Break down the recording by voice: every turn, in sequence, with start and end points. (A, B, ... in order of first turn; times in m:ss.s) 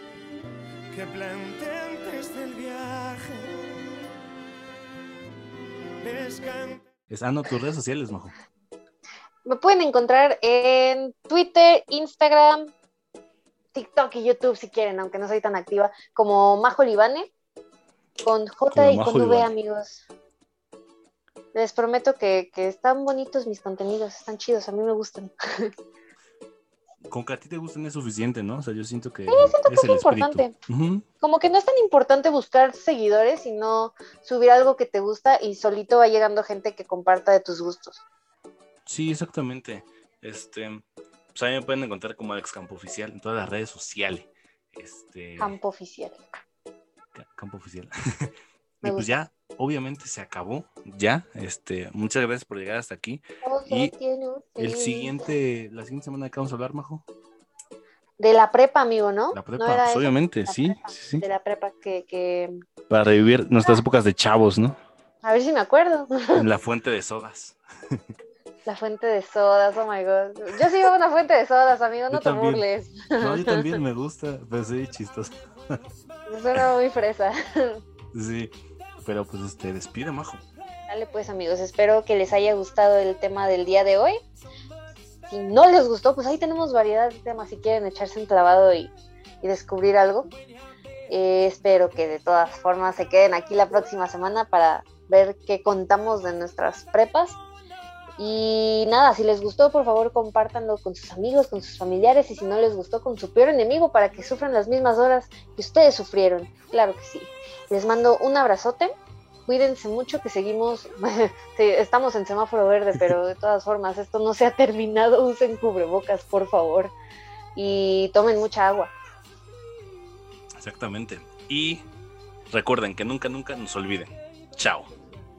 0:00.9-0:03.5 A
0:06.0-0:06.9 A
0:07.1-0:08.3 B
0:09.4-0:12.7 C
0:13.7-0:17.3 C
0:18.2-0:20.0 C
0:18.7-0:19.5 B
0:21.5-0:25.7 C
0:27.0-0:31.0 B
0:29.3-0:30.5 C
0:31.2-0:38.0 C
0:38.8-0:45.6 B
0:45.4-0:46.2 C
0:47.1-0:48.3 B
0:48.8-0:49.1 C
0:48.8-0:53.9 B
0:53.4-0:55.2 C
0:54.6-0:57.0 B
0:58.2-1:02.6 C
0:59.3-1:01.2 B
1:02.9-1:04.8 B
1:05.2-1:06.4 C
1:06.3-1:08.0 B
1:08.6-1:13.6 C
1:12.1-1:12.6 B
1:13.2-1:15.8 B
1:16.3-1:17.8 C
1:18.1-1:18.5 B
1:19.0-1:20.4 B
1:20.9-1:24.2 C
1:25.3-1:30.3 C
1:31.1-1:37.4 C
1:38.2-1:48.9 C
1:49.5-1:56.9 C
1:57.6-1:58.9 C
2:00.6-2:01.8 B
2:02.5-2:04.9 B